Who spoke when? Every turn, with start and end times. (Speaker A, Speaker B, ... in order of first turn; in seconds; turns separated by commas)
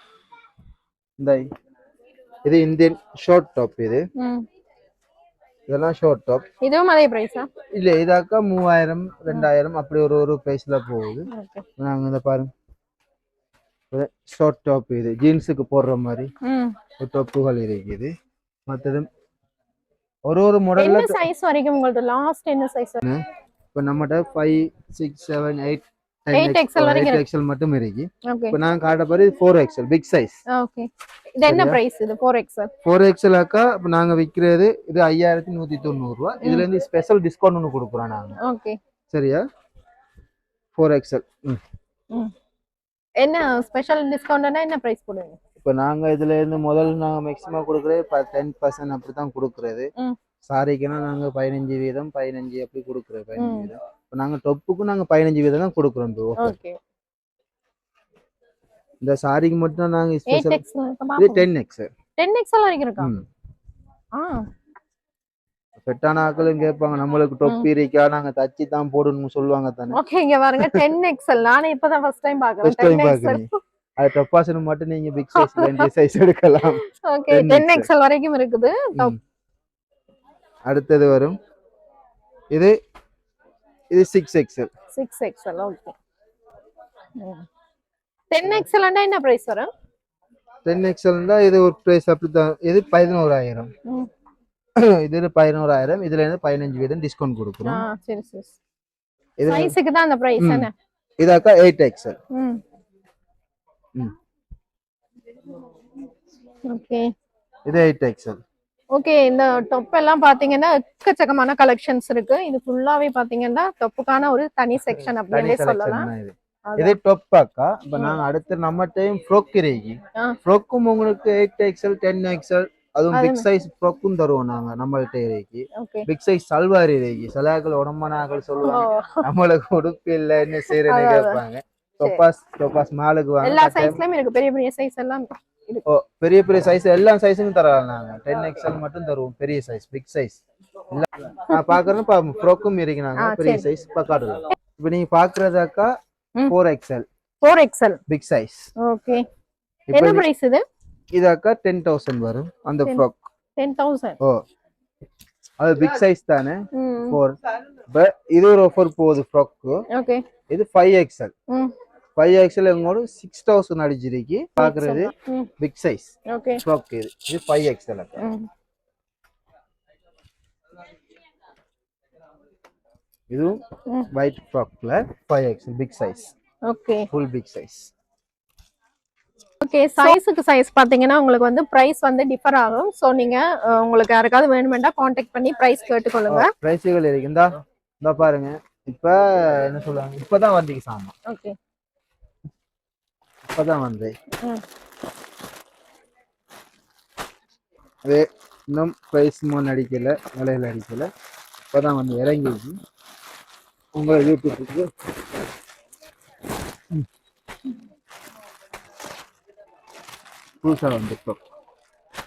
Speaker A: 1.2-1.4, Speaker A: 2.4-4.0, Speaker B: 4.2-4.5, Speaker A: 5.7-6.4, Speaker B: 6.6-7.5, Speaker A: 7.8-12.5, Speaker B: 11.3-11.6, Speaker A: 13.9-16.3, Speaker B: 16.4-16.8, Speaker A: 17.0-18.1, Speaker A: 18.7-19.1, Speaker A: 20.2-21.2, Speaker B: 20.8-23.0, Speaker A: 23.0-30.4, Speaker B: 26.3-27.2, Speaker B: 28.2-28.6, Speaker B: 30.5-32.7, Speaker A: 31.4-31.8, Speaker A: 32.8-38.4, Speaker B: 38.4-38.8, Speaker A: 39.1-39.4, Speaker A: 40.8-41.6, Speaker B: 43.2-45.4, Speaker A: 45.6-49.9, Speaker A: 50.5-56.5, Speaker B: 53.4-53.7, Speaker B: 56.4-56.8, Speaker A: 59.0-60.6, Speaker B: 60.3-61.5, Speaker A: 61.2-61.9, Speaker B: 62.2-63.1, Speaker A: 63.0-63.2, Speaker B: 64.1-64.5, Speaker A: 65.8-70.0, Speaker B: 69.9-73.6, Speaker A: 70.6-70.9, Speaker A: 72.6-77.9, Speaker B: 75.3-75.9, Speaker B: 76.9-79.2, Speaker A: 80.7-81.4, Speaker A: 83.9-84.7, Speaker B: 84.9-86.0, Speaker B: 87.2-87.5, Speaker B: 88.3-89.7, Speaker A: 90.6-93.7, Speaker B: 93.8-94.1, Speaker A: 94.8-97.8, Speaker B: 97.6-98.5, Speaker A: 99.4-99.7, Speaker B: 99.5-100.7, Speaker A: 100.4-102.2, Speaker B: 102.3-102.6, Speaker B: 106.7-107.1, Speaker A: 107.7-108.4, Speaker B: 108.9-116.1, Speaker A: 115.3-134.0, Speaker B: 116.7-117.0, Speaker B: 117.9-118.2, Speaker B: 123.1-123.5, Speaker B: 125.7-126.1, Speaker B: 128.6-129.3, Speaker B: 130.7-131.4, Speaker B: 133.4-135.8, Speaker A: 135.8-140.4, Speaker A: 140.9-145.9, Speaker B: 141.5-141.8, Speaker B: 143.2-143.7, Speaker A: 146.5-147.1, Speaker B: 147.4-148.0, Speaker A: 148.1-148.7, Speaker B: 148.8-149.3, Speaker A: 149.9-150.3, Speaker B: 149.9-150.6, Speaker A: 151.1-153.3, Speaker B: 153.6-154.2, Speaker A: 155.6-157.3, Speaker B: 156.7-157.2, Speaker A: 157.9-159.8, Speaker B: 159.9-160.2, Speaker A: 160.5-161.3, Speaker B: 161.5-161.7, Speaker A: 162.2-168.2, Speaker B: 164.6-165.5, Speaker B: 166.3-166.6, Speaker B: 168.2-168.5, Speaker A: 173.3-176.3, Speaker B: 176.6-177.1, Speaker A: 177.1-177.9, Speaker B: 179.6-186.5, Speaker A: 186.3-191.1, Speaker B: 191.2-191.6, Speaker A: 193.4-194.1, Speaker A: 198.0-201.1, Speaker A: 201.7-202.8, Speaker A: 203.9-204.9, Speaker A: 210.6-211.4